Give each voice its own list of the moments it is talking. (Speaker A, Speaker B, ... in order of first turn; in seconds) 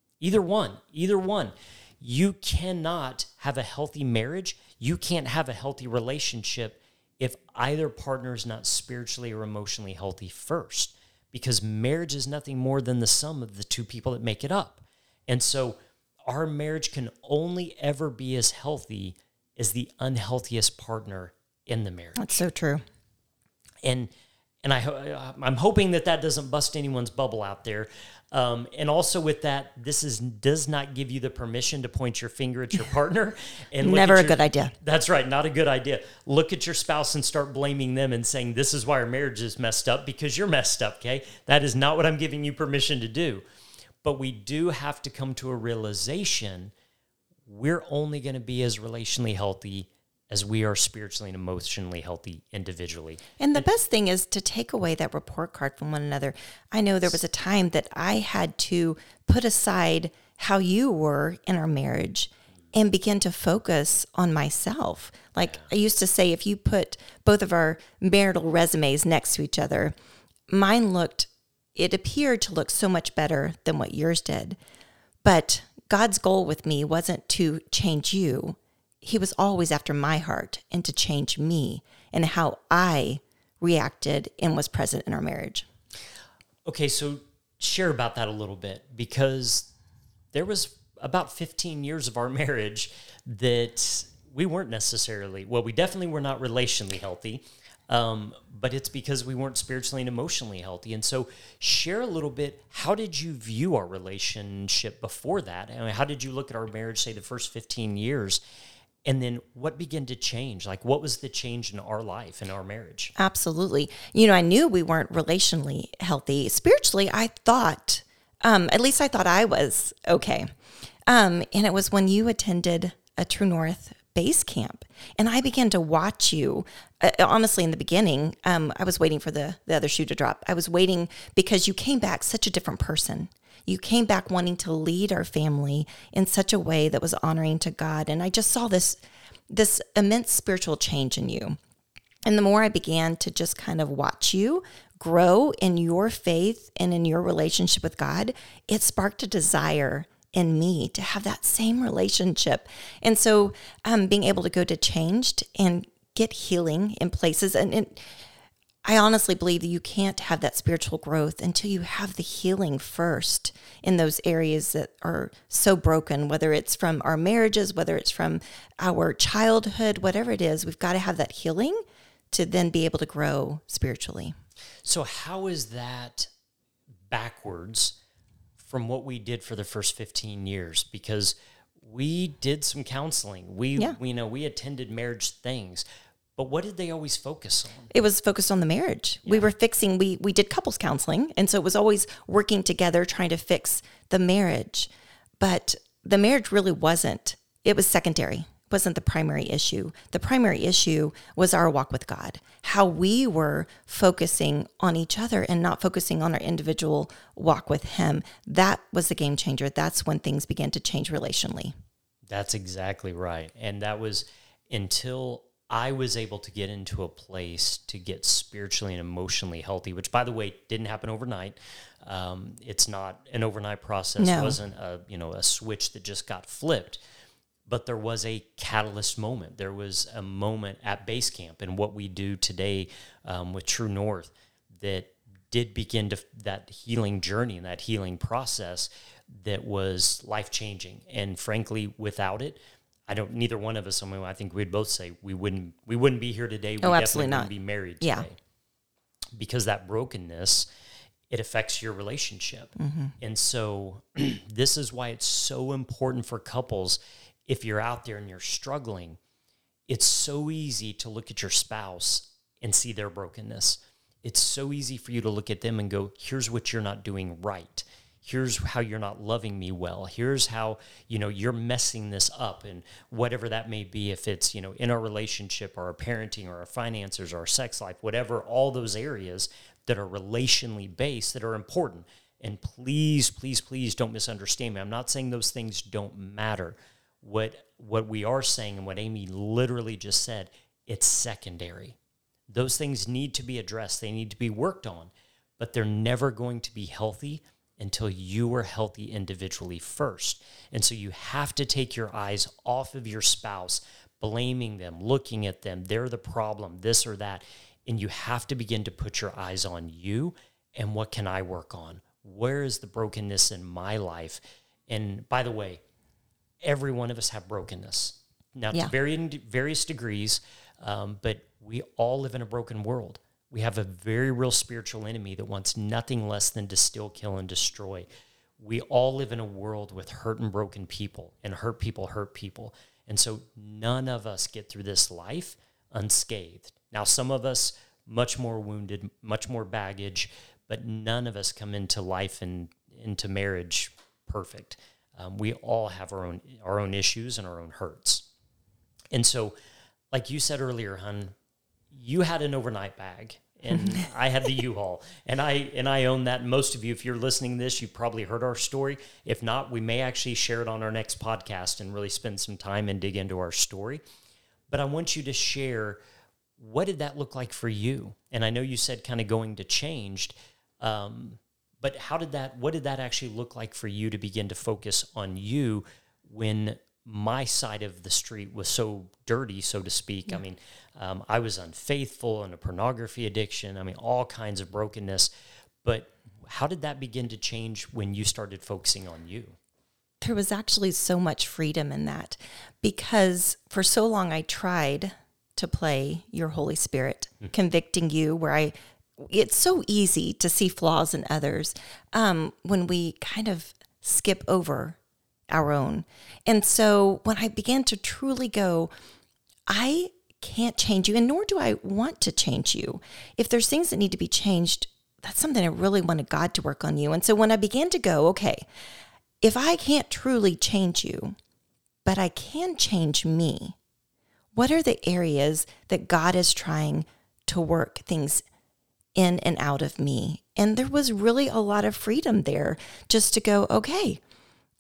Speaker A: 0.2-22.4, 23.8-24.1, 24.6-43.4, 44.0-46.7, 47.5-53.7, 86.7-89.7, 90.3-108.4, 109.0-113.1, 174.8-176.3, 177.1-178.0, 178.6-185.8, 186.4-187.9, 212.3-227.0, 227.7-248.4, 249.4-250.7, 251.3-259.2, 259.9-292.0, 292.5-315.8, 316.6-328.1, 328.6-348.3, 349.1-349.6, 350.1-351.3, 351.9-364.0, 364.7-366.0, 366.6-385.3, 385.8-389.6
Speaker B: 22.2-22.8, 33.8-34.8, 53.4-69.9, 70.5-74.6, 75.2-85.7, 113.2-120.5, 121.1-141.6, 142.3-158.0, 158.8-174.3, 187.9-211.7, 224.2-224.6, 246.8-247.5, 248.0-248.3, 252.8-253.2, 390.2-405.0, 405.5-408.9, 409.7-418.6, 419.4-421.4, 422.1-423.8, 424.6-428.4, 429.2-434.2